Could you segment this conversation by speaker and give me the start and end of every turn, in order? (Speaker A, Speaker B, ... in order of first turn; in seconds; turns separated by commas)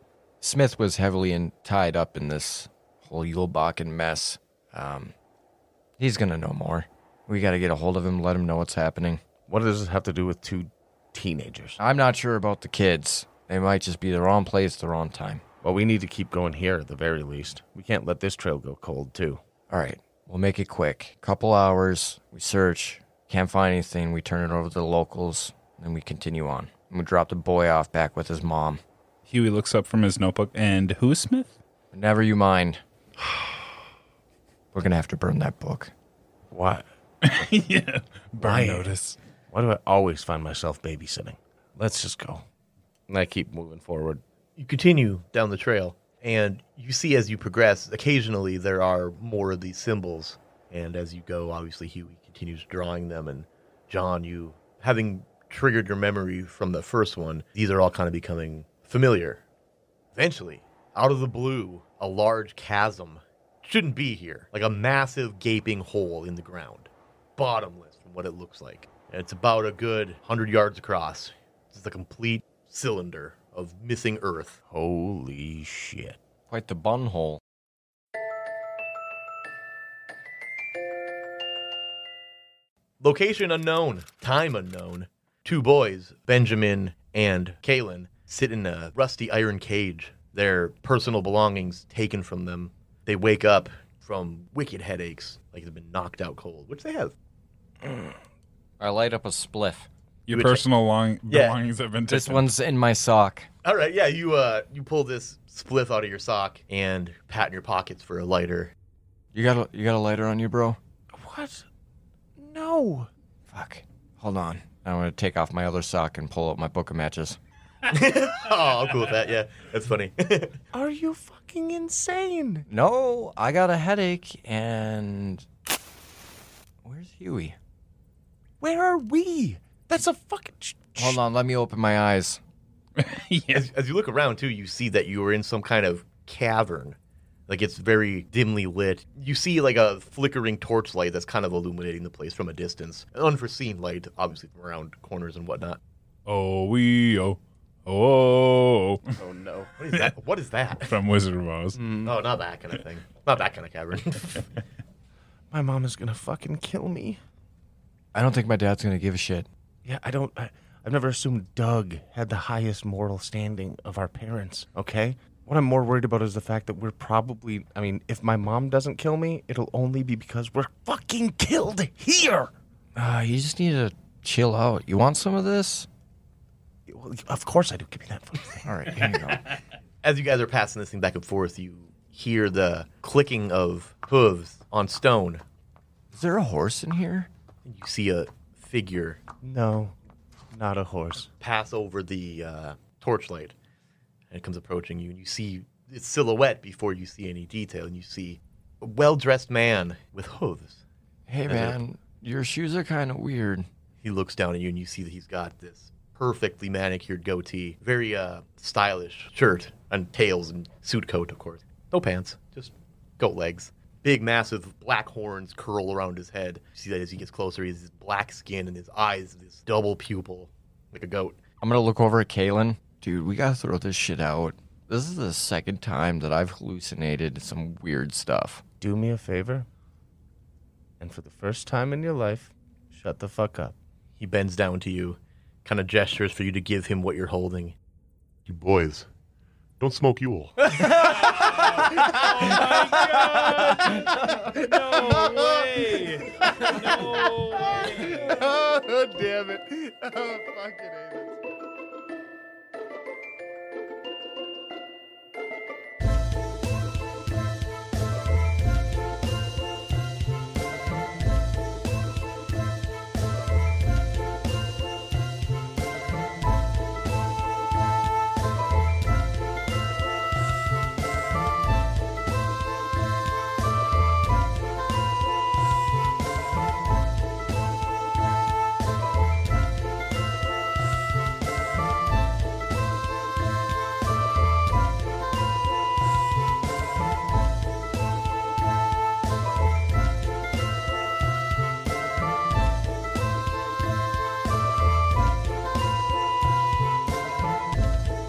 Speaker A: 0.4-5.1, Speaker A: 6.0-9.2, Speaker B: 9.5-11.8, Speaker A: 11.8-15.4, Speaker B: 15.6-19.4, Speaker A: 19.7-28.8, Speaker C: 29.3-31.6, Speaker A: 31.9-32.8, Speaker A: 34.7-35.9, Speaker B: 36.5-36.9, Speaker C: 37.2-39.2, Speaker B: 38.4-38.9, Speaker B: 39.5-42.5, Speaker B: 43.1-44.2, Speaker D: 44.6-59.4, Speaker D: 60.1-74.6, Speaker B: 74.7-76.2, Speaker A: 76.5-77.4, Speaker D: 83.0-97.1, Speaker A: 98.8-99.9, Speaker C: 100.3-102.5, Speaker D: 100.3-100.6, Speaker D: 101.3-101.6, Speaker A: 102.1-103.5, Speaker D: 103.6-108.7, Speaker A: 109.3-110.8, Speaker B: 111.1-111.7, Speaker B: 112.4-113.1, Speaker A: 113.5-117.4, Speaker D: 117.9-120.6, Speaker B: 120.7-122.7, Speaker A: 122.7-125.5, Speaker A: 126.8-127.6, Speaker B: 128.6-131.2, Speaker A: 131.0-132.4, Speaker C: 133.0-133.7, Speaker D: 133.5-137.0, Speaker D: 137.5-145.8, Speaker C: 146.3-149.1, Speaker B: 149.2-149.7, Speaker D: 149.8-150.9, Speaker C: 150.8-151.9, Speaker B: 151.8-152.1, Speaker D: 152.0-154.5, Speaker B: 155.5-157.2, Speaker A: 158.1-159.5, Speaker B: 159.8-172.5, Speaker A: 173.0-175.9, Speaker B: 176.9-178.7, Speaker A: 178.7-179.4, Speaker D: 180.0-185.4, Speaker A: 186.1-187.3, Speaker D: 187.7-189.2, Speaker B: 189.4-189.9, Speaker B: 190.5-191.3, Speaker D: 191.4-193.5, Speaker D: 194.3-200.8, Speaker A: 201.3-203.7, Speaker D: 201.5-201.8, Speaker D: 204.0-221.4, Speaker A: 221.6-228.6, Speaker B: 228.8-229.7, Speaker B: 231.0-233.7, Speaker D: 234.2-237.8, Speaker D: 238.5-239.1, Speaker D: 239.8-241.0, Speaker C: 240.9-248.5, Speaker B: 241.9-251.4